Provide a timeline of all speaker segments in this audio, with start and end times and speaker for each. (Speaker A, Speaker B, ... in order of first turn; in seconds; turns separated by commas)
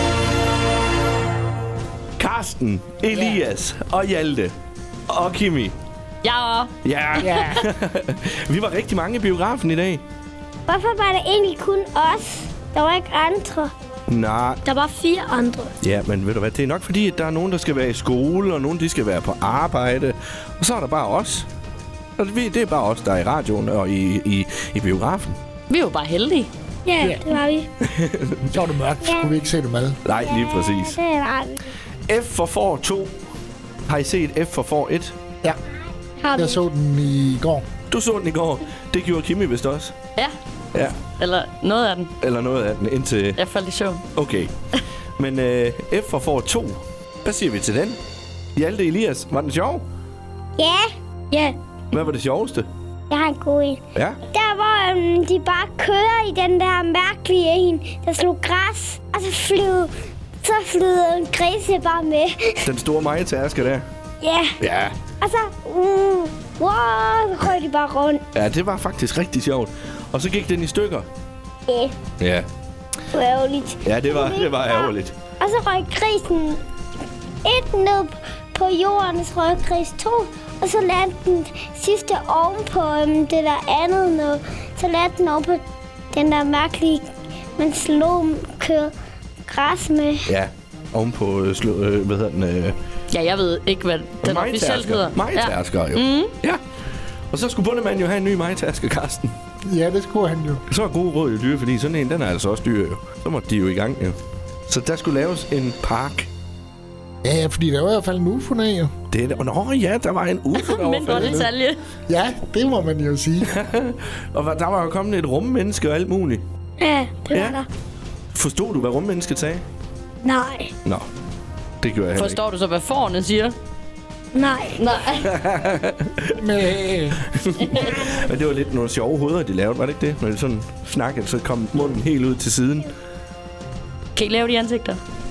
Speaker A: 2.2-4.5, Speaker B: 3.1-3.4, Speaker A: 5.1-5.8, Speaker B: 6.2-7.6, Speaker A: 6.8-10.0, Speaker C: 7.2-7.6, Speaker D: 10.7-13.7, Speaker A: 14.1-14.6, Speaker D: 14.7-15.7, Speaker A: 15.8-21.5, Speaker A: 22.2-25.4, Speaker B: 25.7-26.5, Speaker D: 26.9-27.7, Speaker C: 27.0-27.4, Speaker A: 27.8-28.6, Speaker C: 28.4-30.1, Speaker D: 29.0-29.3, Speaker A: 30.0-31.0, Speaker D: 30.1-31.8, Speaker A: 32.1-33.1, Speaker A: 33.9-35.1, Speaker D: 36.2-36.6, Speaker C: 36.3-37.7, Speaker A: 37.9-39.9, Speaker A: 40.7-41.0, Speaker B: 41.0-42.1, Speaker A: 42.2-43.4, Speaker B: 43.3-44.0, Speaker A: 44.1-44.5, Speaker A: 45.2-48.0, Speaker A: 48.5-49.8, Speaker D: 50.6-51.5, Speaker A: 51.9-52.7, Speaker D: 53.1-53.8, Speaker A: 53.9-54.2, Speaker D: 54.3-59.9, Speaker D: 60.4-62.6, Speaker A: 62.6-63.9, Speaker D: 64.2-64.5, Speaker A: 64.6-64.9, Speaker D: 65.2-68.2, Speaker A: 68.3-71.1, Speaker D: 71.7-72.0, Speaker A: 72.2-72.5, Speaker D: 73.1-76.6, Speaker A: 73.8-75.1, Speaker D: 77.4-88.9, Speaker D: 89.5-90.3, Speaker A: 90.2-92.8, Speaker B: 93.1-96.3, Speaker A: 94.2-96.6, Speaker A: 97.3-99.3, Speaker C: 99.6-100.6, Speaker A: 100.7-106.3, Speaker C: 107.2-108.9, Speaker A: 109.1-111.5, Speaker B: 110.5-111.8, Speaker C: 112.1-113.5, Speaker A: 113.4-116.4, Speaker D: 116.8-117.6, Speaker A: 117.3-117.6, Speaker A: 118.3-119.6, Speaker D: 120.2-120.7, Speaker A: 121.8-122.4, Speaker B: 122.1-123.5, Speaker D: 124.3-124.8, Speaker B: 124.8-125.3, Speaker A: 125.2-126.4, Speaker C: 126.4-127.3, Speaker A: 127.3-132.9, Speaker B: 127.5-128.1, Speaker B: 134.2-135.0